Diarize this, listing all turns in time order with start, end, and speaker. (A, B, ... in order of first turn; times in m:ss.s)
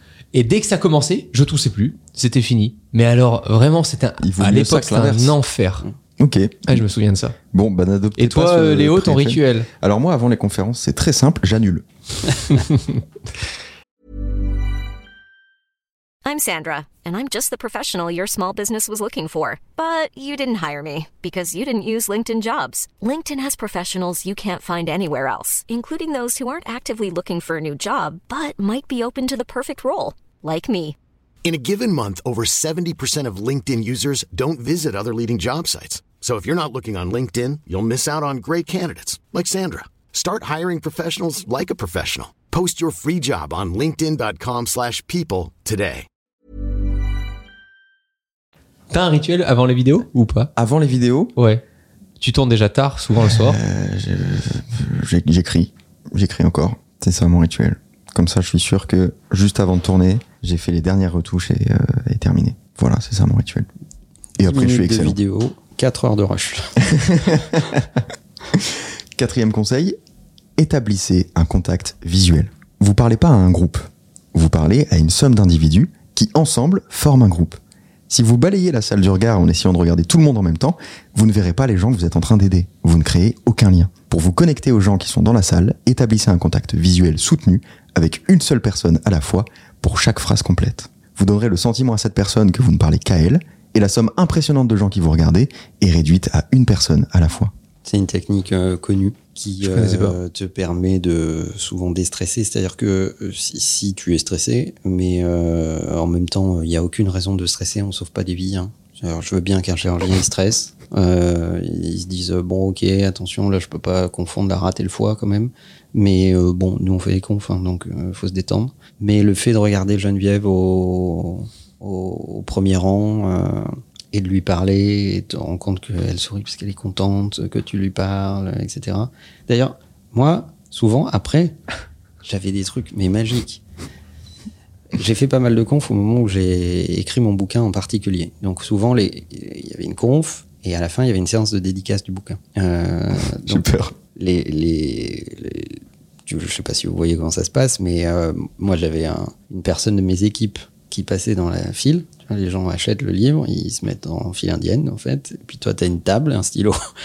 0:00.3-0:05.8 A
0:04.2-0:05.4 B
0:06.2-0:06.8 B
0:06.7-0:07.4 A
0:07.5-0:11.8 B
0:08.2-0:09.7 A
0:16.2-0:31.0 C
0:31.4-0:46.1 D
0:48.9-0:50.5 A
0:50.6-0:51.3 B
0:51.4-0:51.6 A
0:52.2-0:53.6 A
0:53.2-1:03.7 B
1:04.4-1:05.2 B
1:04.4-1:07.0 E
1:06.8-1:10.0 B
1:10.6-1:37.5 B
1:37.8-2:11.6 E
1:39.6-1:40.2 A
2:12.2-2:13.6 E
2:14.9-2:36.8 E
2:23.4-2:23.9 B